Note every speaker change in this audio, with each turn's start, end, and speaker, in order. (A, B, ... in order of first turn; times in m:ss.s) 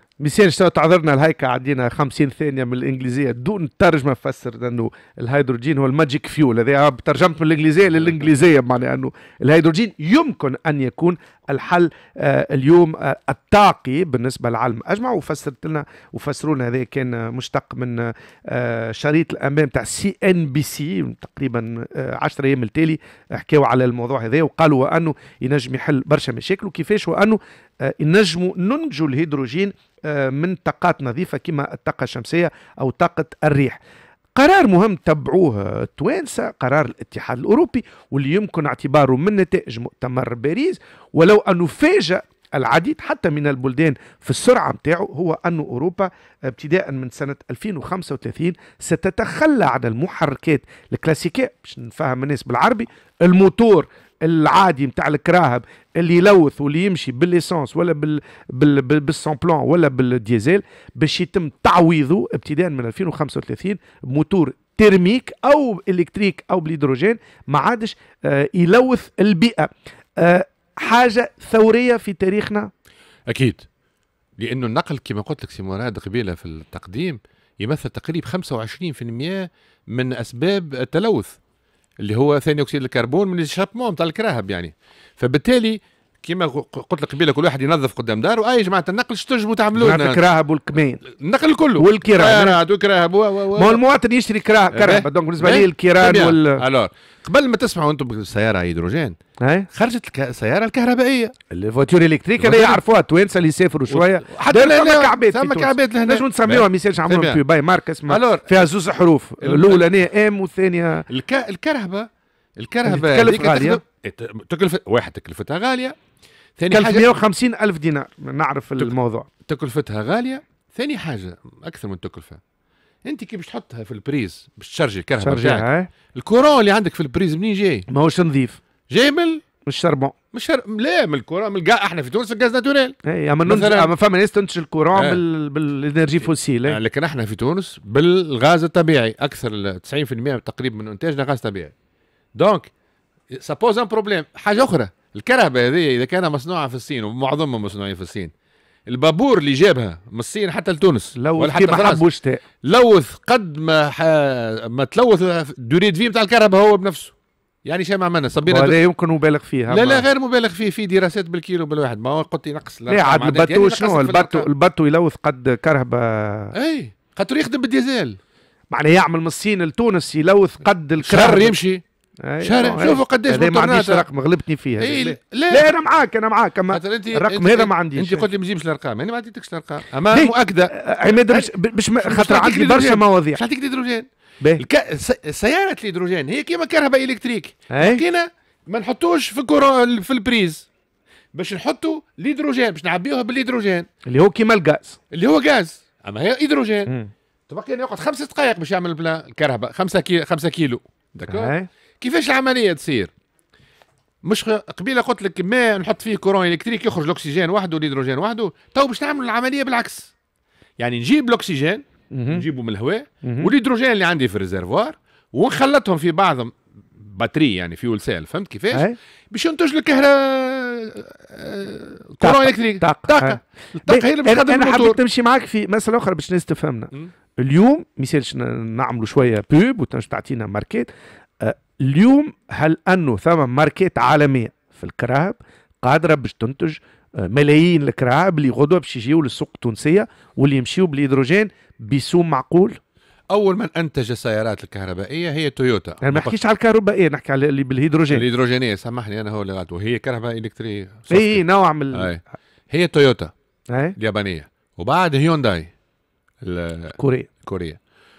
0:00.2-0:33.8 A
0:34.4-1:12.7 A
1:13.3-1:13.6 B
1:14.4-1:21.4 B
1:22.0-1:30.2 B
1:29.7-1:31.0 A
1:31.0-1:33.8 B
1:31.8-1:32.6 A
1:33.6-1:36.6 A
1:34.7-1:39.2 B
1:39.4-1:39.7 A
1:39.7-1:41.3 B
1:41.5-1:51.0 A
1:42.4-1:42.8 B
1:43.9-1:47.4 B
1:48.1-1:48.7 B
1:49.4-1:49.9 B
1:51.1-1:56.0 B
1:52.8-1:53.8 A
1:56.6-1:57.1 B
1:56.7-1:59.3 A
1:59.4-2:02.4 B
2:03.0-2:07.8 B
2:05.2-2:05.9 A
2:07.9-2:08.6 A
2:08.9-2:09.4 B
2:09.6-2:10.1 A
2:10.3-2:13.9 B
2:13.0-2:16.8 A
2:14.9-2:15.2 B
2:16.2-2:21.7 B
2:22.3-2:22.7 B
2:23.3-2:28.3 B
2:28.9-2:32.0 B
2:31.2-2:32.4 A
2:32.6-2:37.1 B
2:37.6-2:38.8 B
2:38.5-2:40.0 A
2:39.7-2:44.5 B
2:42.9-2:46.5 A
2:46.5-2:48.2 B
2:48.7-2:51.6 A
2:51.0-2:51.8 B
2:52.2-2:58.3 A
2:52.4-2:54.0 B
2:54.8-2:55.7 B
2:56.7-3:01.5 B
3:00.1-3:03.4 A
3:02.0-3:04.1 B
3:04.6-3:10.7 B
3:07.7-3:08.0 A
3:11.3-3:13.9 B
3:14.0-3:15.0 A
3:15.1-3:16.9 B
3:16.9-3:17.1 A
3:17.5-3:23.1 B
3:21.3-3:21.7 A
3:24.2-3:30.1 B
3:30.8-3:45.0 B
3:32.1-3:32.4 A
3:33.2-3:33.5 A
3:42.2-3:50.9 A
3:51.4-4:02.8 A
4:03.3-4:06.4 B
4:06.0-4:08.2 A
4:08.1-4:11.4 B
4:11.1-4:12.1 A
4:11.9-4:13.3 B
4:14.0-4:15.7 B
4:16.4-4:17.8 B
4:17.0-4:17.3 A